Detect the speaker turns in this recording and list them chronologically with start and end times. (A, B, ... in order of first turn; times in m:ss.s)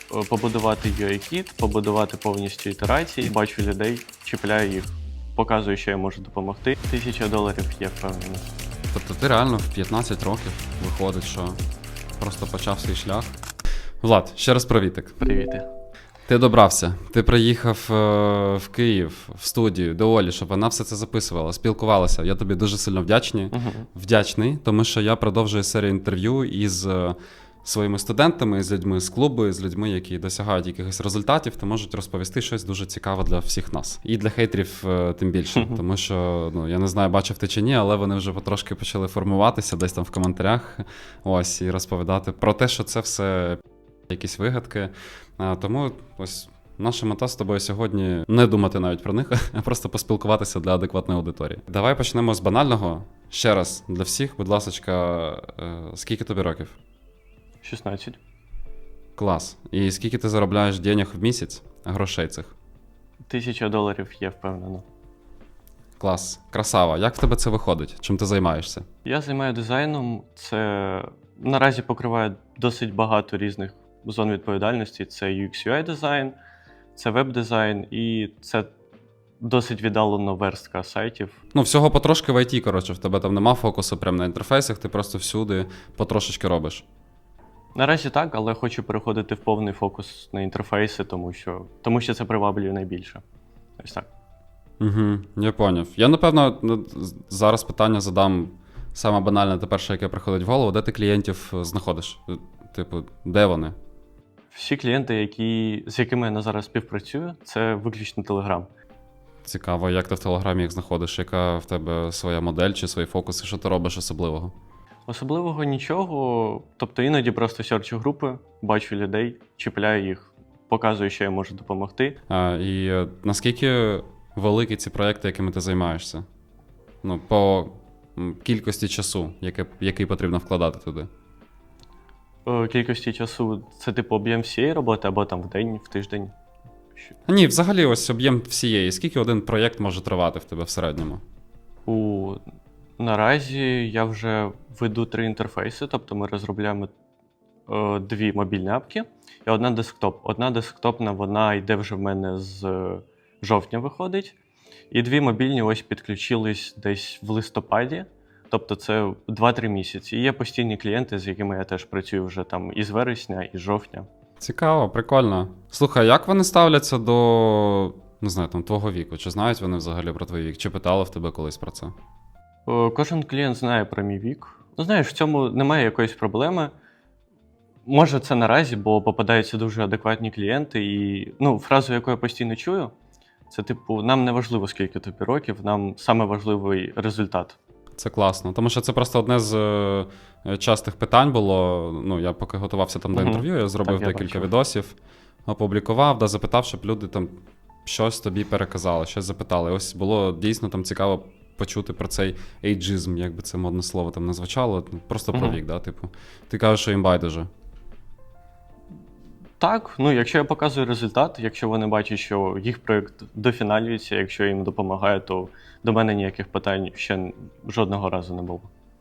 0:00.1-0:08.5 A
0:08.9-0:11.6 B
0:12.2-0:13.3 B
0:14.0-0:15.2 B
0:15.2-0:15.7 A
0:16.3-0:56.8 B
0:23.5-0:23.9 A
0:57.6-0:58.2 A
0:59.2-1:02.6 B
1:03.3-1:04.8 A
1:06.0-1:08.8 B
1:09.0-1:16.4 A
1:16.9-1:18.7 A
1:19.4-1:21.4 A
1:21.5-1:26.8 B
1:27.8-1:33.2 A
1:33.8-1:34.1 A
1:34.8-1:43.8 B
1:44.5-1:48.7 A
1:49.4-1:54.5 B
1:55.1-2:02.2 A
2:02.3-2:06.2 B
2:07.0-2:11.1 B
2:12.5-2:16.3 A
2:17.2-2:21.2 B
2:21.9-2:22.4 A
2:23.0-2:26.9 A
2:27.7-2:34.3 A
2:34.9-2:44.1 A
2:44.4-2:51.9 B
2:52.7-2:56.7 A
2:57.9-3:02.9 A
3:03.5-3:07.6 A
3:08.0-3:15.0 B
3:13.1-3:14.5 A
3:15.5-3:27.5 B
3:25.3-3:25.6 A
3:29.6-3:38.7 A